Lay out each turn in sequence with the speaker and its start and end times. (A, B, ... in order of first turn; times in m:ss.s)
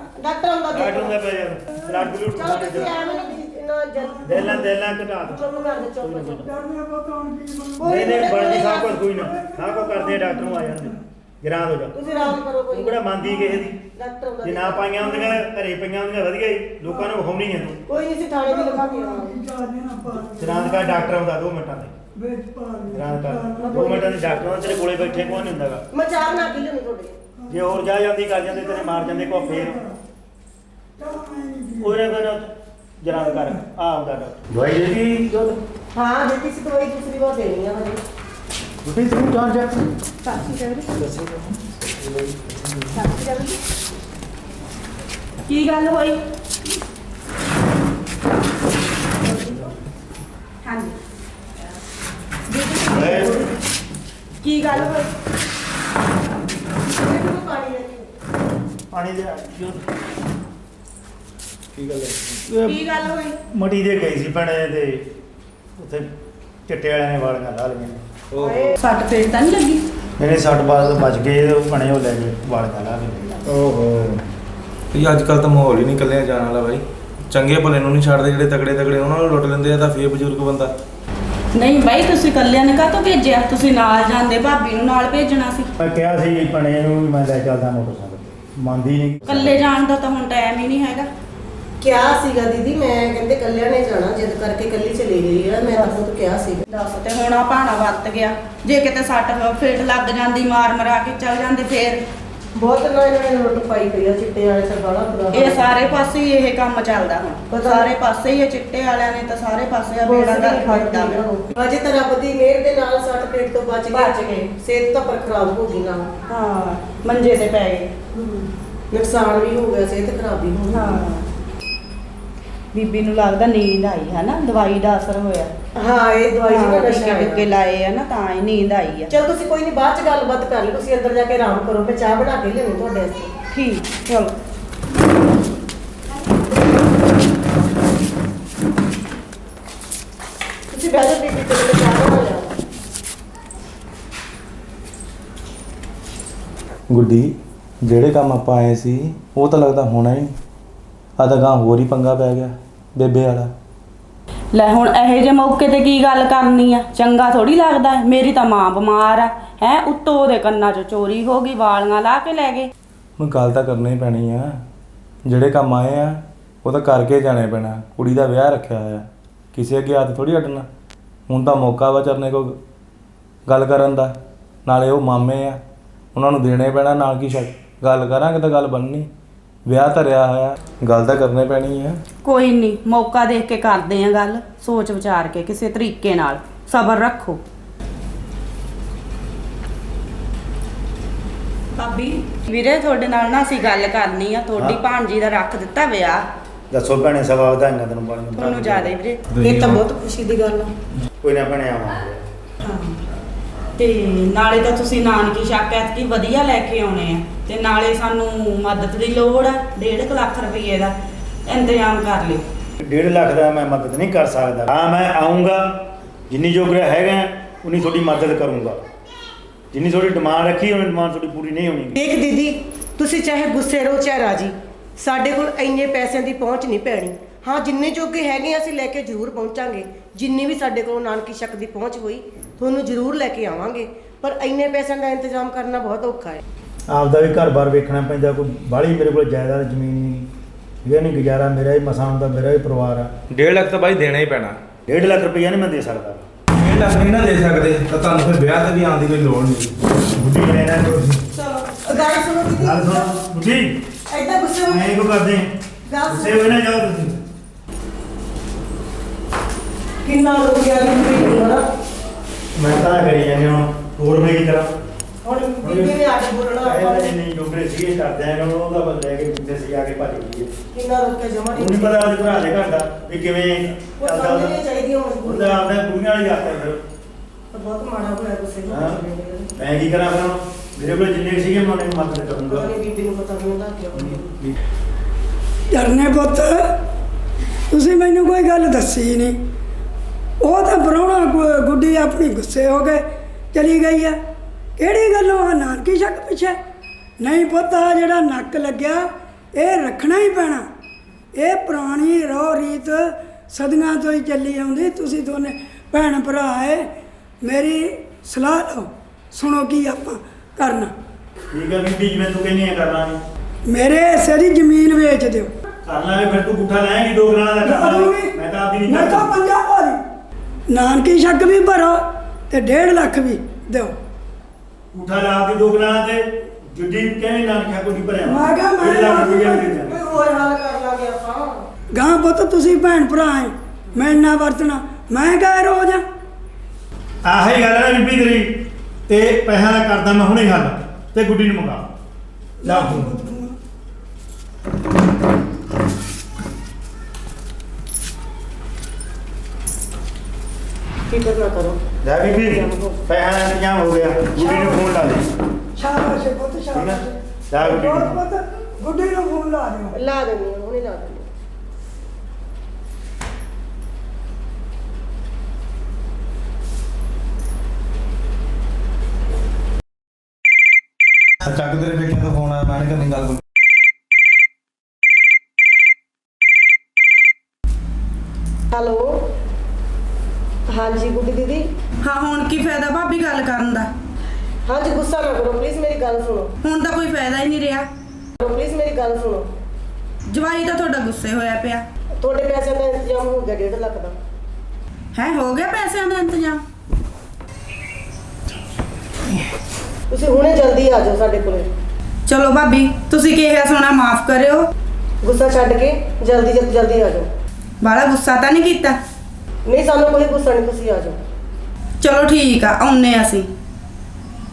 0:00.2-0:01.1 A
0:00.7-0:03.0 B
0:02.4-0:04.7 A
0:04.0-0:04.6 C
0:04.2-0:06.5 B
0:05.2-0:06.5 A
0:05.5-0:11.0 C
0:07.8-0:09.0 A
0:07.8-0:12.1 B
0:11.9-0:13.1 A
0:12.0-0:12.4 C
0:12.7-0:13.8 B
0:13.2-0:13.6 C
0:13.9-0:15.2 A
0:14.4-0:17.8 B
0:16.8-0:17.2 C
0:17.9-0:19.4 A
0:18.4-0:21.2 C
0:20.2-0:21.9 B
0:22.2-0:24.0 C
0:22.9-0:25.8 B
0:23.6-0:24.9 A
0:24.9-0:25.6 C
0:25.9-0:27.2 A
0:26.2-0:26.6 C
0:27.4-0:27.8 C
0:27.5-0:29.8 B
0:28.4-0:30.0 C
0:31.0-0:32.0 C
0:31.8-0:35.6 B
0:33.1-0:33.6 C
0:35.9-0:38.0 A
0:38.8-0:39.9 B
0:40.2-0:40.9 D
0:41.0-0:42.9 B
0:42.9-0:43.6 D
0:45.5-0:46.2 D
0:50.6-0:51.0 D
0:52.5-0:53.5 D
0:52.9-0:53.3 B
0:54.4-0:55.1 D
0:56.9-0:58.1 A
0:58.9-0:59.8 B
1:01.7-1:02.4 E
1:02.5-1:02.8 B
1:02.6-1:03.4 D
1:03.5-1:05.0 B
1:05.8-1:06.1 B
1:06.7-1:08.0 B
1:08.3-1:08.7 E
1:08.4-1:08.8 A
1:08.8-1:09.8 D
1:10.2-1:14.2 B
1:14.9-1:20.7 E
1:21.5-1:25.7 D
1:25.8-1:29.6 B
1:29.3-1:31.1 D
1:31.8-1:36.8 A
1:36.9-1:42.0 D
1:42.5-1:45.7 A
1:45.3-1:51.2 D
1:47.5-1:47.9 A
1:50.0-1:56.1 A
1:53.9-1:54.4 D
1:56.3-1:57.9 D
1:58.2-2:01.0 A
2:00.7-2:01.2 D
2:02.7-2:05.5 D
2:05.8-2:07.4 A
2:06.5-2:09.1 D
2:09.1-2:13.3 A
2:13.5-2:14.3 D
2:20.7-2:22.5 A
2:26.9-2:30.3 E
2:31.2-2:33.5 E
2:34.5-2:42.7 D
2:43.2-2:44.6 E
2:45.2-2:50.7 E
2:51.3-2:52.6 E
2:53.5-2:54.1 E
2:54.6-2:55.6 E
2:56.1-2:59.1 E
2:59.6-3:02.0 E
3:02.2-3:07.4 D
3:11.8-3:16.2 D
3:16.7-3:18.9 B
3:18.3-3:19.2 D
3:19.4-3:19.8 E
3:19.4-3:20.7 A
3:21.2-3:22.2 B
3:22.6-3:23.0 D
3:23.8-3:30.9 D
3:31.4-3:32.4 D
3:32.8-3:38.8 B
3:39.7-3:42.0 B
3:41.9-3:56.4 A
3:56.9-4:00.3 B
4:00.8-4:03.1 B
4:03.3-4:04.6 E
4:04.9-4:06.2 B
4:06.6-4:09.7 E
4:10.1-4:11.2 B
4:11.3-4:13.1 A
4:12.6-4:13.8 B
4:14.1-4:14.9 A
4:14.7-4:15.5 B
4:15.9-4:16.4 A
4:16.0-4:17.2 B
4:20.0-4:21.6 A
4:22.6-4:24.7 B
4:25.2-4:27.1 A
4:25.6-4:26.0 B
4:26.6-4:30.5 B
4:30.7-4:32.1 A
4:31.5-4:34.6 B
4:34.0-4:35.7 A
4:35.2-4:36.8 B
4:37.5-4:39.5 A
4:38.7-4:39.0 B
4:39.6-4:42.7 B
4:42.5-4:44.3 A
4:44.0-4:44.5 B
4:45.7-4:46.7 C
4:47.7-4:49.4 C
4:50.4-4:54.2 C
4:54.8-4:56.6 C
4:57.2-5:00.6 C
5:01.4-5:06.9 C
5:07.4-5:10.9 C
5:11.5-5:13.2 B
5:13.7-5:15.5 C
5:15.8-5:19.3 B
5:17.6-5:18.3 C
5:18.9-5:20.0 C
5:20.7-5:24.0 C
5:24.9-5:30.0 B
5:28.2-5:29.7 C
5:29.1-5:31.6 A
5:31.9-5:36.0 C
5:37.2-5:41.8 B
5:42.6-5:43.6 C
5:42.6-5:43.1 B
5:51.1-5:51.8 A
5:52.0-5:55.3 B
5:52.4-5:53.0 A
5:54.3-5:54.8 C
5:55.8-6:00.0 C
5:56.7-5:58.2 B
5:59.9-6:01.3 A
6:11.4-6:13.2 B
6:18.7-6:19.2 A
6:20.7-6:21.7 A
6:22.0-6:23.9 D
6:24.6-6:26.5 A
6:26.6-6:27.9 D
6:28.4-6:29.5 A
6:30.3-6:31.8 D
6:32.2-6:34.2 A
6:35.1-6:36.6 D
6:40.1-6:41.7 A
6:42.3-6:44.7 D
6:45.2-6:47.3 A
6:47.8-6:49.0 D
6:49.6-6:51.2 A
6:52.0-6:53.5 D